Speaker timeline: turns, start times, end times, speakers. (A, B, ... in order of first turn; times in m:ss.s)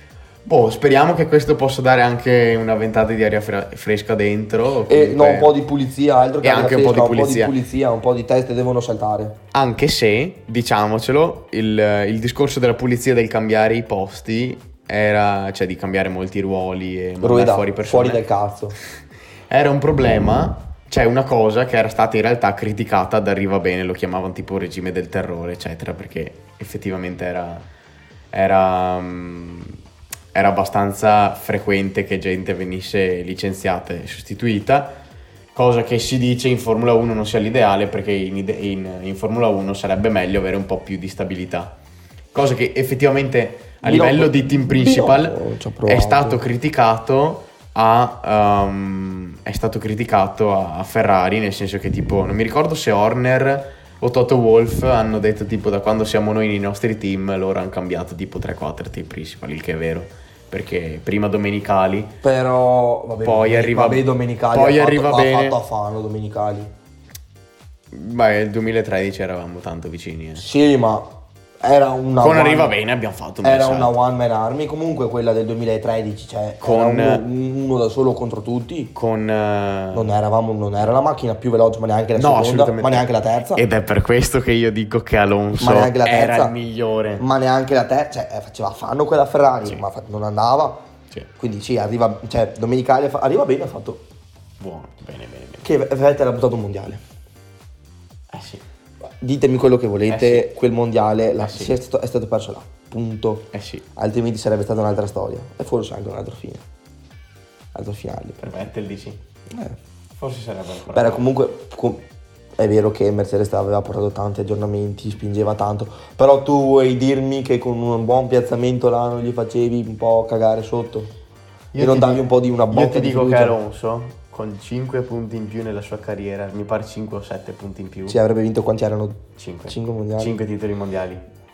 0:00.5-0:05.6 A
0:04.9-0:09.4 B
0:06.4-0:07.6 A
0:09.5-0:18.2 A
0:17.2-0:18.8 B
0:19.5-0:27.6 A
0:28.3-0:29.8 A
0:30.3-0:35.0 A
0:35.5-0:41.8 A
0:42.3-1:02.2 A
0:43.8-0:46.4 B
1:02.2-1:06.7 B
1:03.2-1:05.6 A
1:07.9-1:10.5 A
1:10.4-1:12.8 B
1:12.2-1:14.0 A
1:13.4-1:18.9 B
1:16.6-1:17.2 A
1:19.0-1:20.1 A
1:19.9-1:23.6 B
1:22.2-1:27.2 A
1:25.6-1:26.6 B
1:27.2-1:30.8 B
1:31.4-1:34.0 B
1:34.6-1:35.7 A
1:35.6-1:37.0 B
1:38.3-1:38.6 A
1:39.0-1:46.6 B
1:40.1-1:40.5 A
1:41.4-1:41.8 A
1:43.5-1:43.8 A
1:47.7-1:48.5 B
1:48.4-1:49.2 A
1:49.5-1:49.8 B
1:50.2-1:51.3 A
1:50.9-1:52.0 B
1:52.6-2:01.1 B
2:01.7-2:08.2 A
2:01.8-2:03.6 B
2:08.1-2:10.4 B
2:09.4-2:11.2 A